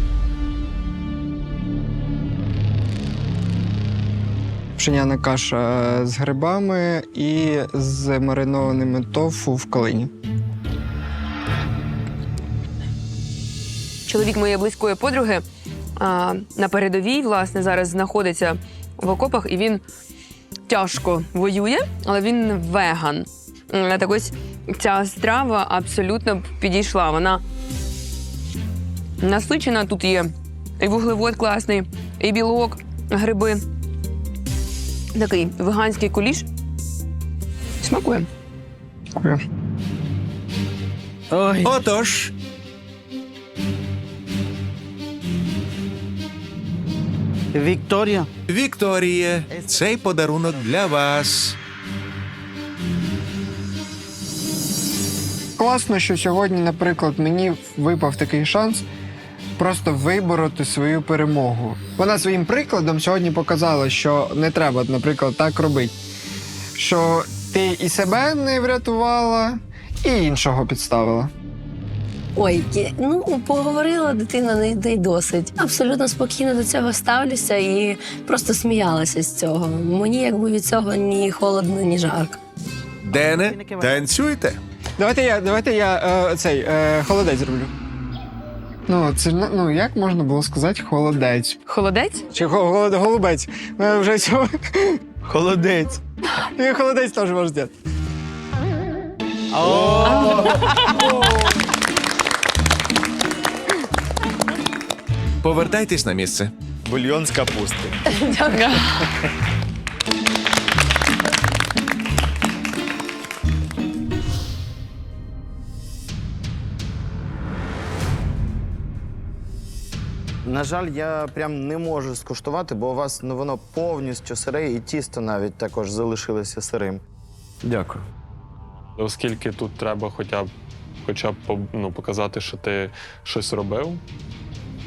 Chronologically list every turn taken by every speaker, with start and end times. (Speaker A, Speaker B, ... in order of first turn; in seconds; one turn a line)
Speaker A: 4.8-10.1
Speaker B: 14.1-15.4
Speaker B: 16.0-19.8
Speaker B: 20.7-27.4
Speaker B: 29.2-33.6
Speaker B: 35.1-36.5
Speaker C: 41.3-41.8
Speaker D: 41.6-42.3
Speaker C: 47.5-48.3
Speaker D: 48.5-51.6
Speaker C: 49.5-49.9
Speaker A: 55.6-58.9
Speaker A: 59.6-66.0
Speaker A: 66.8-71.3
Speaker E: 72.4-82.4
Speaker D: 83.0-84.6
Speaker C: 83.1-84.1
Speaker A: 85.0-87.7
Speaker A: 88.9-91.6
Speaker B: 91.7-92.2
Speaker A: 92.3-95.0
Speaker F: 95.2-96.0
Speaker A: 96.6-97.7
Speaker C: 99.5-100.5
Speaker F: 99.6-100.4
Speaker B: 100.0-100.8
Speaker D: 105.4-106.5
Speaker F: 106.8-107.9
Speaker B: 108.3-109.1
Speaker F: 120.5-127.0
Speaker F: 127.7-128.0
Speaker G: 129.0-130.5
Speaker G: 131.0-134.0